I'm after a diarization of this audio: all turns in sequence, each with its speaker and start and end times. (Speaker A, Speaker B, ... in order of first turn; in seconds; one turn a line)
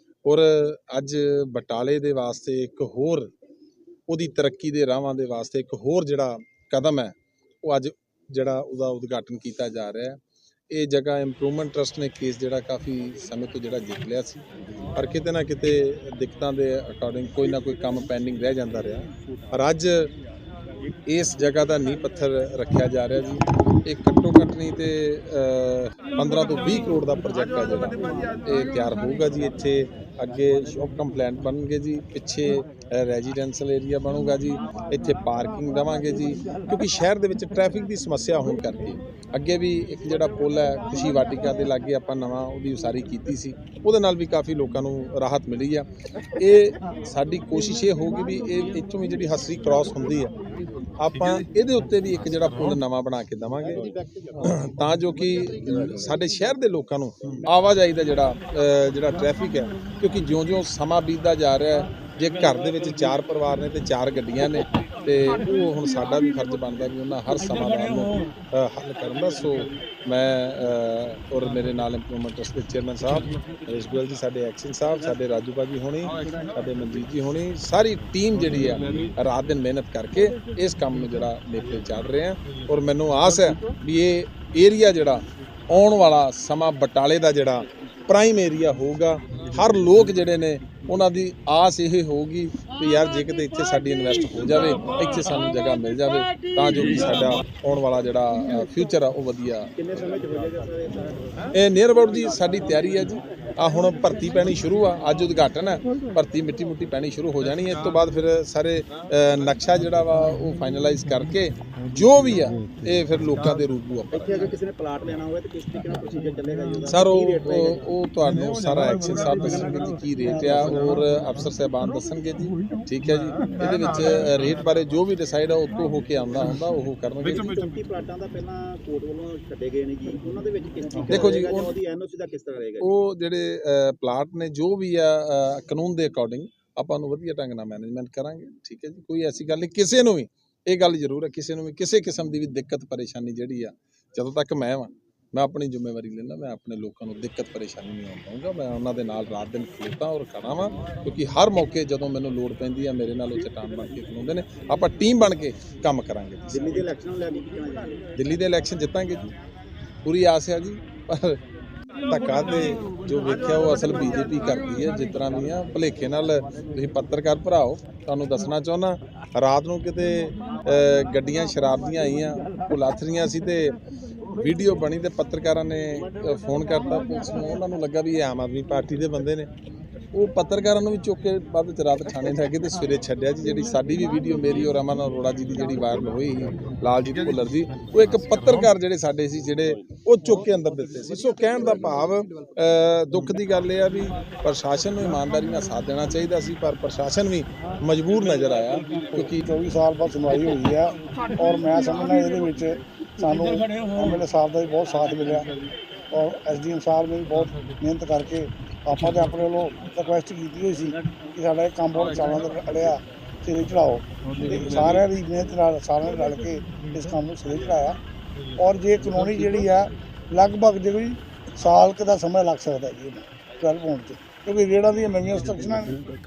Speaker A: 0.2-3.3
Speaker A: 4.1-14.4
Speaker A: 14.9-20.1
Speaker A: 21.1-45.9
Speaker A: 46.4-50.3
Speaker A: 51.0-99.9
Speaker B: 53.9-54.3
Speaker B: 99.8-101.5
Speaker A: 101.5-114.5
Speaker B: 114.3-117.8
Speaker A: 116.9-127.5
Speaker B: 127.5-132.8
Speaker A: 131.1-131.7
Speaker A: 132.8-156.9
Speaker B: 156.6-158.0
Speaker A: 158.2-159.3
Speaker A: 160.0-161.4
Speaker A: 162.1-173.8
Speaker A: 174.4-179.5
Speaker A: 180.1-199.4
Speaker C: 199.2-205.5
Speaker C: 206.1-218.0
Speaker C: 218.6-226.0